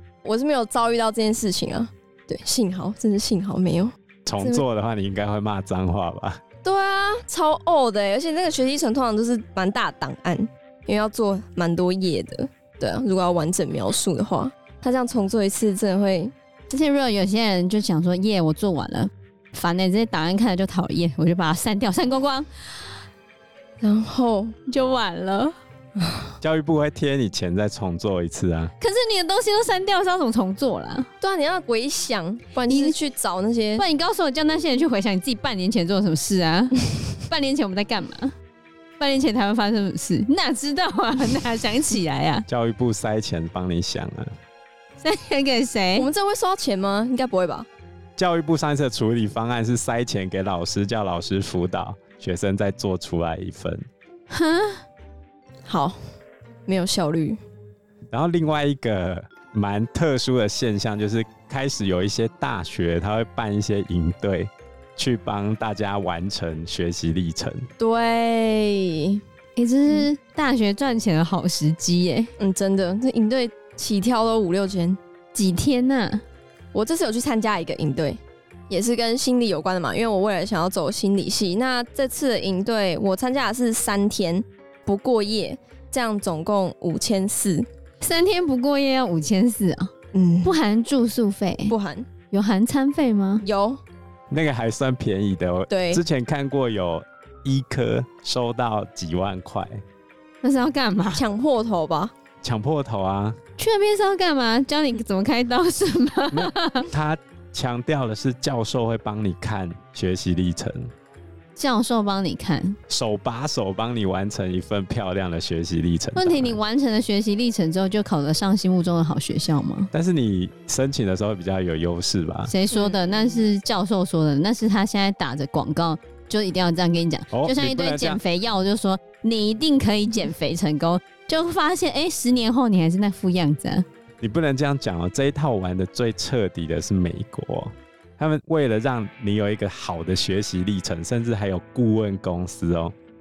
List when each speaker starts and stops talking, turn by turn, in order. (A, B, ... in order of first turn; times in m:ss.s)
0:00.2-0:04.6 A
0:04.2-0:06.4 B
0:06.6-0:16.3 A
0:16.7-0:22.5 C
0:23.8-0:24.5 A
0:24.7-0:25.5 C
0:26.0-0:26.3 A
0:26.4-0:28.7 B
0:28.8-0:31.1 C
0:31.2-0:33.8 A
0:32.7-0:33.0 C
0:33.8-0:38.3 C
0:39.0-0:42.4 C
0:42.5-0:44.3 B
0:45.0-0:46.1 C
0:46.0-0:47.7 A
0:48.2-0:53.8 B
0:54.3-0:54.8 C
0:55.6-0:56.0 A
0:56.7-0:57.4 A
0:58.1-1:07.7 B
1:07.8-1:09.2 A
1:09.6-1:12.3 C
1:12.4-1:15.0 A
1:15.3-1:16.2 C
1:16.7-1:27.6 A
1:28.0-1:29.9 C
1:30.1-1:30.6 A
1:30.4-1:31.7 C
1:31.7-1:32.1 A
1:32.3-1:33.4 C
1:33.4-1:33.8 A
1:34.3-1:39.8 B
1:35.7-1:36.0 A
1:40.4-1:41.2 C
1:41.1-1:42.1 A
1:42.4-1:43.4 B
1:43.6-1:46.9 C
1:46.3-1:50.9 B
1:51.6-1:52.8 C
1:52.9-1:56.6 B
1:56.1-1:59.9 C
1:59.9-2:02.5 B
2:02.5-2:13.8 C
2:02.7-2:03.4 A
2:07.3-2:08.2 B
2:14.2-2:22.9 B